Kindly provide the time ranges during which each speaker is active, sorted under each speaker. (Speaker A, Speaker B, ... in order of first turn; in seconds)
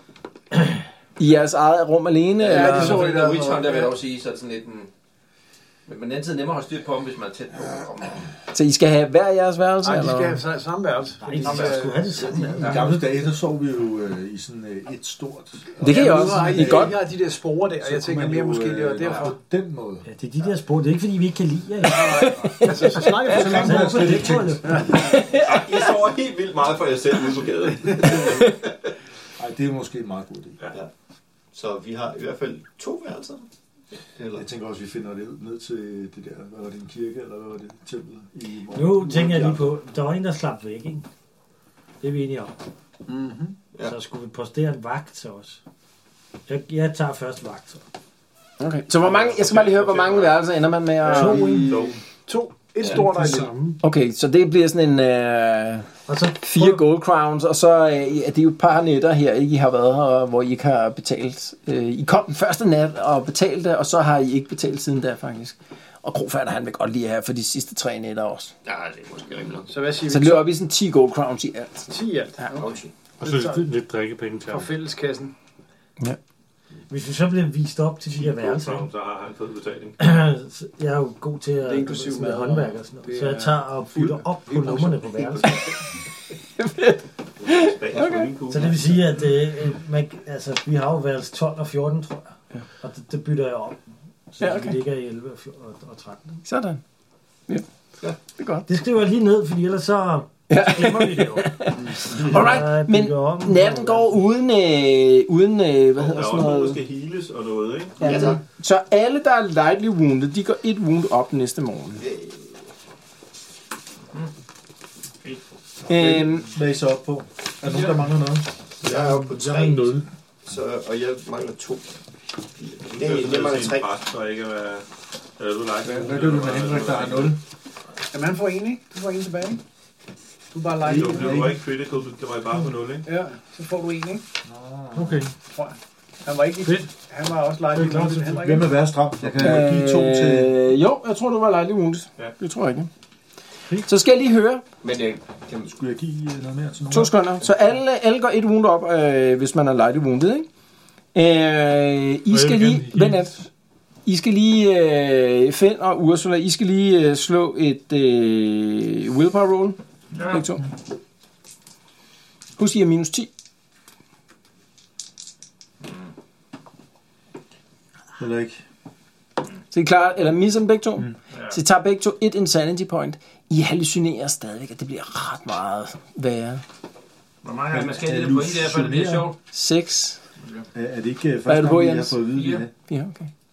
Speaker A: 1.2-3.1, 8.5-10.4, 15.8-17.0, 22.2-22.5, 24.9-25.6, 48.6-51.6, 53.8-68.5, 70.0-71.9, 86.6-88.3, 94.4-94.8, 96.4-96.8, 98.4-98.7, 100.5-106.8, 108.0-112.0, 115.9-116.5, 139.4-142.9, 143.8-144.6, 146.9-150.5, 151.1-153.5, 154.0-160.6, 162.6-163.3, 169.7-176.6, 179.5-180.2, 181.4-182.2, 182.9-183.3
Speaker B: 2.4-4.9, 5.9-8.3, 11.4-11.7, 12.6-12.9, 160.1-160.4, 171.3-171.6, 177.4-179.3, 182.3-182.6
Speaker C: 2.6-3.9, 11.2-13.1, 20.0-24.9, 38.7-41.0, 42.0-42.5, 43.8-45.6, 46.5-47.8, 51.4-51.6, 56.1-56.8, 76.9-78.9, 80.0-85.6, 88.5-93.8, 94.3-96.4, 98.7-104.1
Speaker D: 2.6-3.6, 9.8-12.1, 15.8-19.3, 21.8-24.9, 43.1-43.6, 51.0-53.6, 69.7-70.5, 71.9-73.7, 74.4-75.3, 81.6-85.5, 117.6-118.0, 128.1-129.6, 130.5-131.5, 133.0-134.2, 135.5-138.8
Speaker E: 12.2-17.0, 17.8-20.1, 23.2-25.0, 29.4-30.6, 34.3-39.8, 115.9-118.5, 125.8-127.4, 130.8-131.6, 134.4-135.3, 138.2-140.6, 145.7-147.2, 168.2-168.6, 177.7-179.3, 180.7-182.7
Speaker F: 25.1-28.4, 49.0-50.4, 51.1-52.0, 78.1-80.0, 87.5-88.9, 106.0-108.0, 122.9-124.8, 125.4-127.4, 130.8-133.1
Speaker G: 28.1-28.5, 31.5-33.5, 34.1-34.4, 68.6-69.7, 72.5-72.9, 108.0-108.4, 112.0-112.6, 118.8-121.9, 122.6-123.9, 144.8-145.8
Speaker H: 52.8-53.8, 73.2-74.7, 118.8-120.0, 134.9-135.3, 137.7-138.3, 152.3-153.3